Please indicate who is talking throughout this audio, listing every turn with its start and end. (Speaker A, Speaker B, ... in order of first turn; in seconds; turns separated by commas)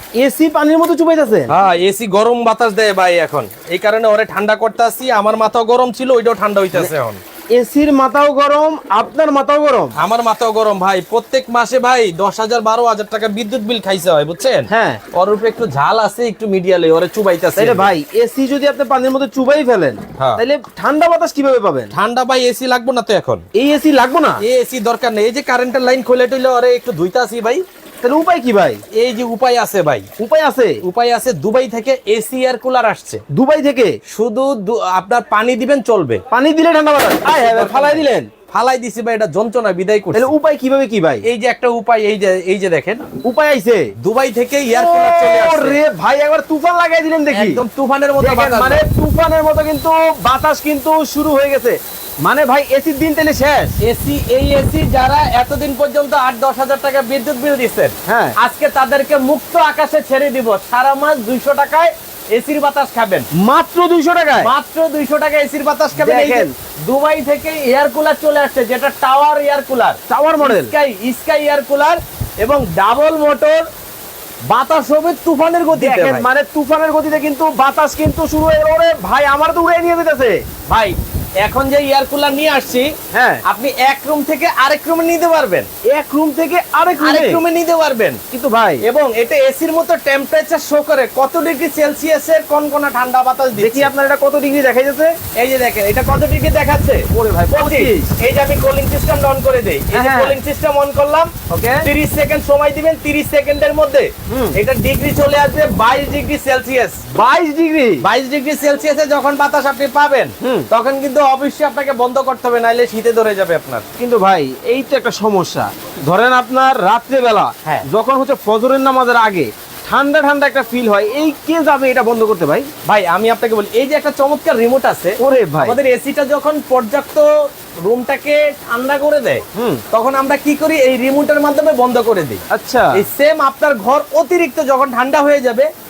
Speaker A: 0.2-1.5, Speaker B: 1.5-7.2, Speaker A: 7.5-9.9, Speaker B: 10.0-17.9, Speaker A: 14.7-15.0, Speaker A: 17.6-21.9, Speaker B: 21.9-23.4, Speaker A: 23.6-24.4, Speaker B: 24.4-27.6, Speaker A: 28.0-28.8, Speaker B: 28.9-30.1, Speaker A: 30.2-30.8, Speaker B: 30.8-33.2, Speaker A: 33.3-34.0, Speaker B: 34.1-36.2, Speaker A: 36.3-38.3, Speaker B: 37.2-40.3, Speaker A: 40.1-41.2, Speaker B: 41.2-43.1, Speaker A: 43.2-43.9, Speaker B: 44.0-45.8, Speaker A: 44.7-47.6, Speaker B: 47.3-48.8, Speaker A: 48.2-53.8, Speaker B: 53.8-63.3, Speaker A: 58.1-58.4, Speaker A: 63.4-64.5, Speaker B: 64.4-73.7, Speaker A: 66.0-66.5, Speaker A: 70.1-70.7, Speaker B: 74.5-76.3, Speaker A: 75.7-80.4, Speaker B: 80.7-82.9, Speaker A: 83.1-83.4, Speaker B: 83.5-85.7, Speaker A: 85.9-87.4, Speaker B: 87.0-88.2, Speaker A: 88.3-88.8, Speaker B: 88.8-93.9, Speaker A: 93.6-95.2, Speaker B: 95.3-107.0, Speaker A: 97.1-98.1, Speaker A: 99.9-100.4, Speaker A: 101.5-101.9, Speaker A: 104.3-104.6, Speaker A: 107.2-108.0, Speaker B: 108.0-113.8, Speaker A: 110.4-110.7, Speaker A: 114.0-122.7, Speaker B: 122.8-132.4, Speaker A: 125.2-125.8, Speaker A: 129.6-129.8, Speaker A: 132.5-133.0, Speaker B: 132.9-135.7